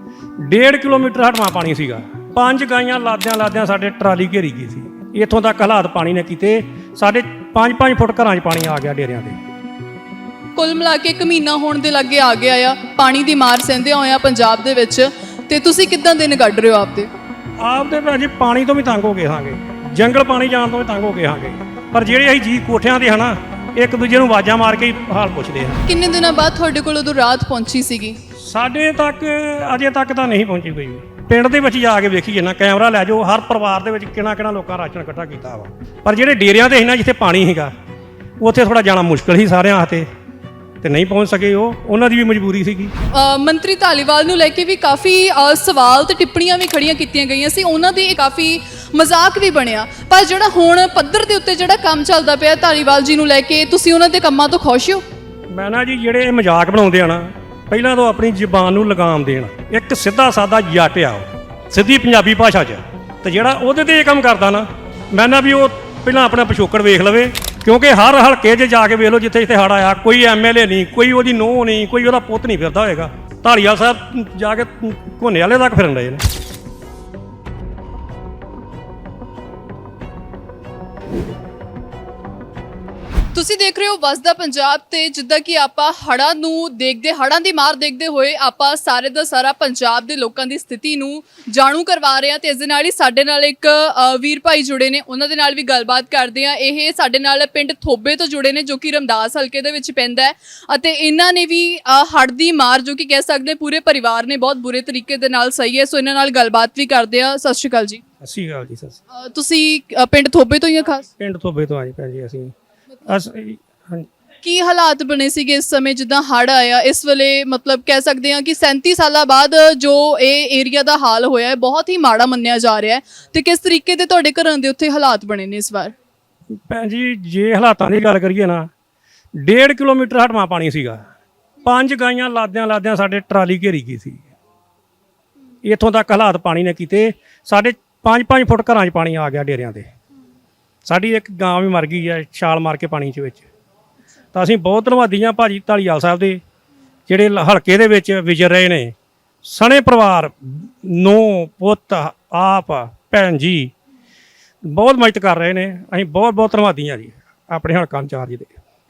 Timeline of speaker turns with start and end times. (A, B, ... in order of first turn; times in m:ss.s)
0:00.4-0:09.4 A
0:10.6-0:17.1 B
0:17.6-0:25.8 A
0:25.8-0:28.2 B
0:28.3-0:37.7 A
0:38.4-0:40.1 A
0:40.8-0:42.9 A
0:43.1-0:55.0 B
0:55.5-1:16.2 A
1:23.3-1:48.0 B
1:48.2-1:49.0 A
1:49.1-1:51.1 B
1:51.2-1:52.5 A
1:53.0-1:54.1 A
1:54.4-2:05.9 B
2:06.5-2:08.7 A
2:09.3-2:11.0 A
2:11.6-2:14.2 A
2:15.6-2:19.9 A
2:20.8-2:23.4 A
2:24.3-2:26.4 A
2:27.1-2:33.7 A
2:34.6-2:38.5 A